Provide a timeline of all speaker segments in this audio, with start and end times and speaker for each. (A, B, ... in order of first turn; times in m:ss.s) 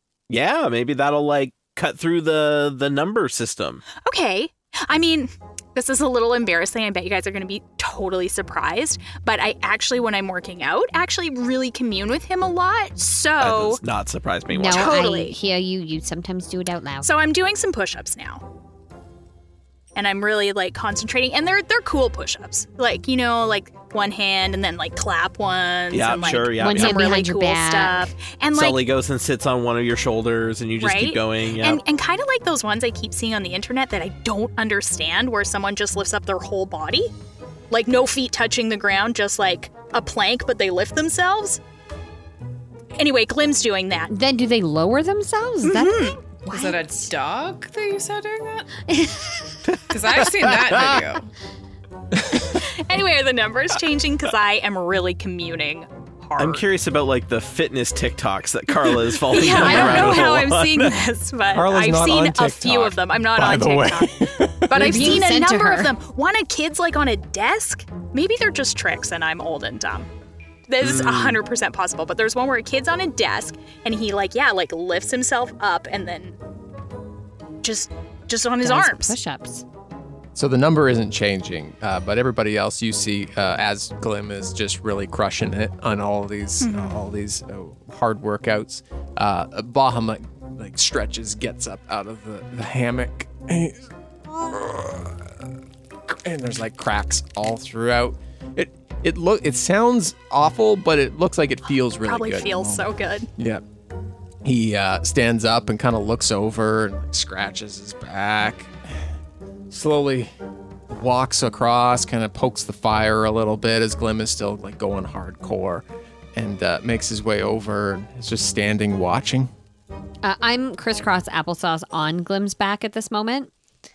0:00.3-0:03.8 A
0:04.0-0:13.8 B
0:13.4-0:15.0 A
0:14.5-0:17.1 C
0:14.7-0:15.4 B
0:17.0-0:18.4 B
0:19.9-0:28.8 B
0:25.9-0:27.0 A
0:26.6-0:28.1 C
0:28.5-0:31.8 A
0:30.8-0:37.1 B
0:37.7-0:41.6 B
0:43.0-0:44.1 B
0:44.1-0:47.1 C
0:45.6-0:46.2 B
0:46.5-0:48.7 D
0:48.9-0:49.7 C
0:49.9-0:51.3 D
0:52.1-0:52.6 E
0:52.6-0:56.6 B
0:56.4-1:01.0 A
0:59.3-1:10.1 B
0:59.7-1:00.0 C
0:59.7-1:00.2 E
1:01.5-1:05.2 E
1:04.7-1:05.9 C
1:10.7-1:16.4 B
1:10.8-1:11.4 A
1:17.6-1:19.2 B
1:18.6-1:19.6 C
1:20.3-1:35.5 E
1:26.6-1:27.0 B
1:36.1-1:43.6 E
1:42.0-1:43.3 B
1:44.4-1:49.0 E
1:49.7-1:50.3 E
1:50.9-1:59.5 E
2:00.2-2:03.5 C